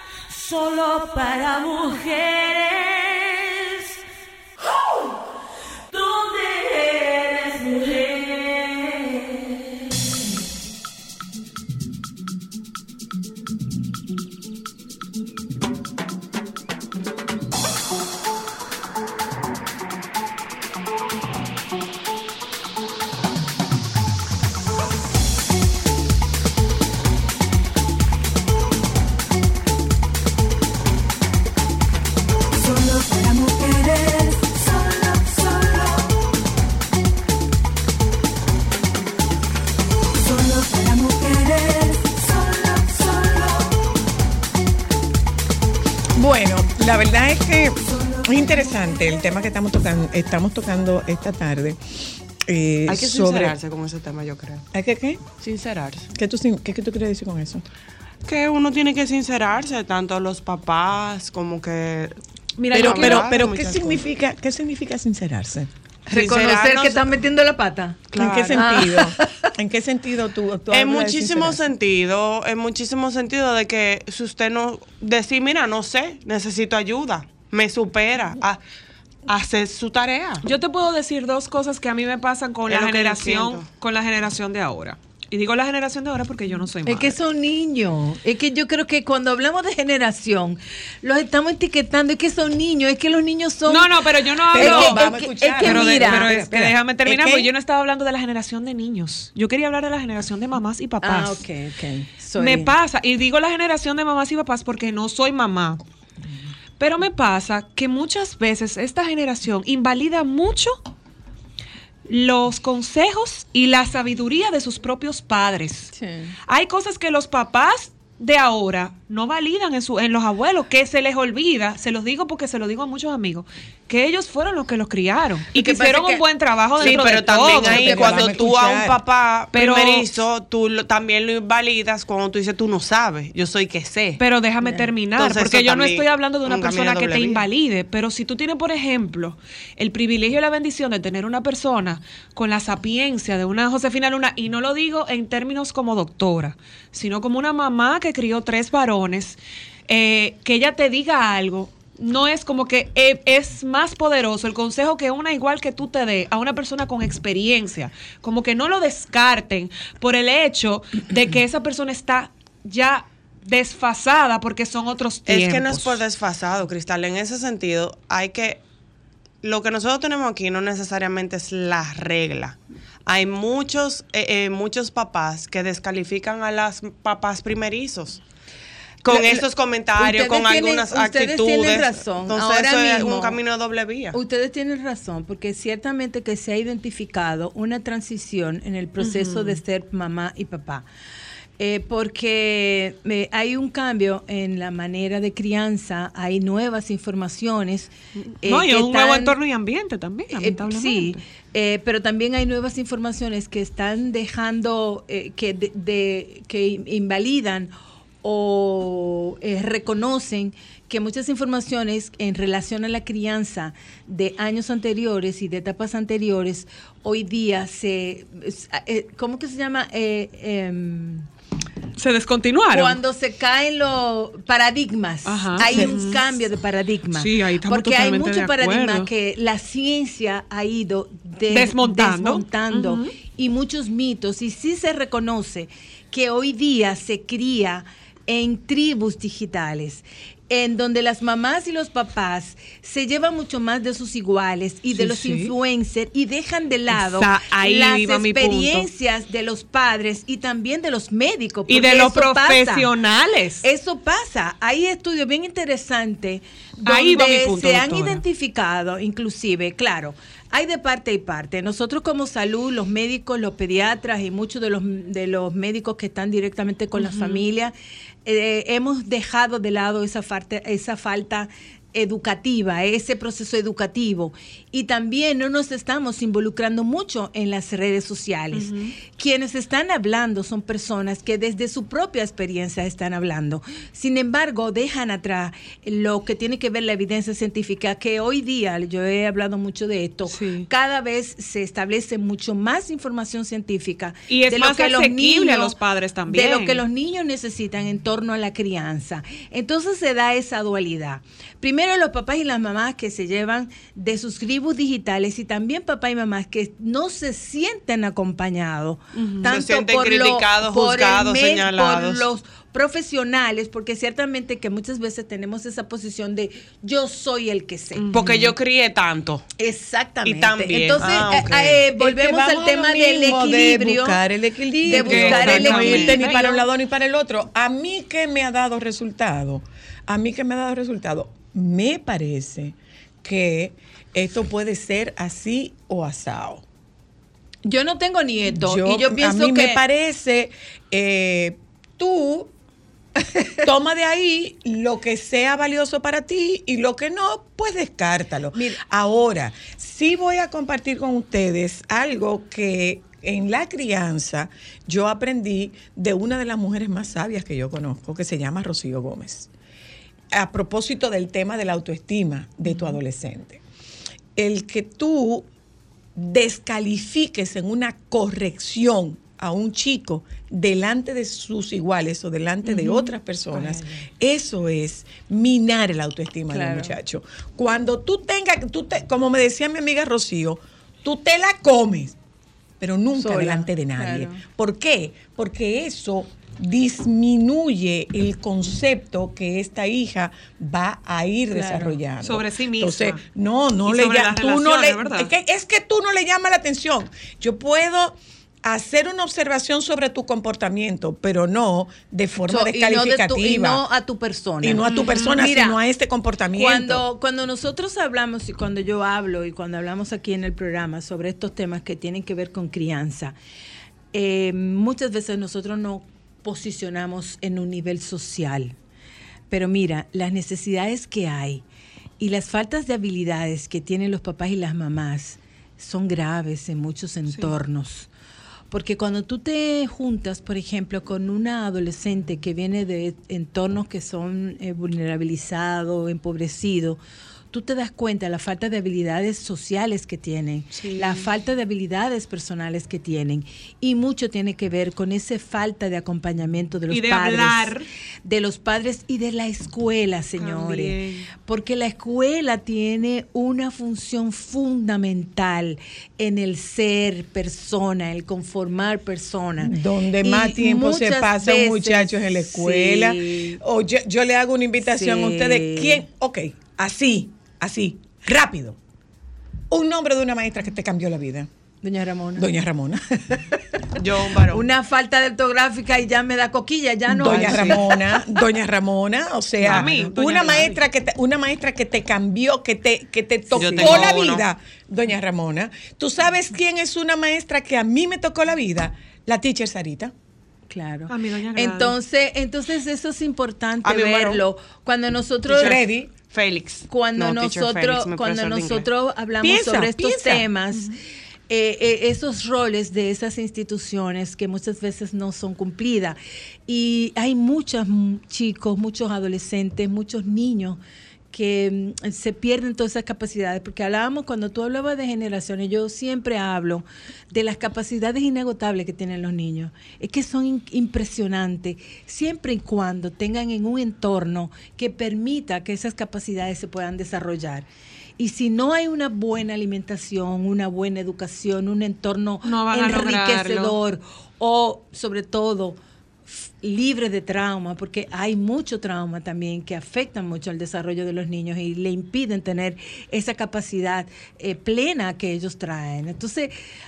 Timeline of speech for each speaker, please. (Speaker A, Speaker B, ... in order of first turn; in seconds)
Speaker A: 0.3-4.0, 5.9-9.8, 32.5-36.1, 40.2-43.8, 47.8-48.8
Speaker B: 46.1-53.5, 54.7-55.2, 56.1-57.6, 62.7-65.7, 68.1-71.6, 94.5-97.5, 125.5-126.2, 126.8-129.0, 245.0-245.4, 322.0-336.6, 338.4-342.5, 343.6-359.5, 360.3-363.6, 364.4-365.5, 366.1-382.2, 382.8-403.8, 404.6-407.0, 459.6-468.8, 469.7-471.5, 472.4-473.0, 477.1-490.1, 495.6-496.1, 499.4-500.4
Speaker C: 52.9-54.6, 55.4-56.1, 58.2-64.0, 66.1-67.0, 70.7-78.6, 79.3-80.4, 82.7-83.7, 126.8-134.2, 135.2-137.4, 165.2-168.6, 169.4-178.2, 179.0-184.2, 309.4-312.2, 318.1-319.5, 320.2-321.8, 473.9-474.7, 477.3-477.8, 483.5-484.4, 493.8-494.4, 495.5-498.9
Speaker D: 62.6-63.4, 68.1-68.6, 80.4-87.2, 93.7-95.1, 95.6-101.4, 102.4-105.8, 106.8-110.8, 112.1-115.9, 116.5-128.2, 129.5-130.1, 134.2-166.0, 189.0-189.6, 198.4-201.2, 222.0-223.0, 225.2-226.3, 227.1-229.1, 231.5-233.1, 246.9-248.9, 251.7-253.6, 256.8-258.2, 267.0-267.4, 278.5-278.9, 290.3-290.7, 294.3-296.8, 317.9-318.4, 324.9-326.2, 392.2-393.2, 393.8-395.3, 404.9-405.3, 427.3-427.5, 440.7-441.3, 446.9-447.9, 450.4-451.3, 479.6-480.8, 491.1-491.9, 532.4-533.8
Speaker E: 66.1-69.5, 86.8-93.9, 94.5-96.3, 101.0-102.7, 115.9-116.3, 179.1-183.4, 184.1-190.8, 191.6-199.3, 200.3-207.7, 208.2-221.3, 222.7-252.9, 253.6-267.7, 268.2-295.7, 296.3-318.1, 319.6-324.2, 324.8-326.7, 337.6-339.8, 348.5-348.8, 372.6-374.0, 376.5-376.9, 383.1-384.4, 391.5-392.0, 402.5-405.8, 406.5-413.4, 414.1-418.7, 419.5-421.6, 422.2-428.1, 428.7-437.0, 437.5-447.7, 448.2-463.6, 464.8-466.0, 471.8-472.4, 474.5-478.0, 483.5-484.1, 490.7-495.8, 496.9-500.9, 501.5-510.8, 511.3-527.7, 528.2-546.5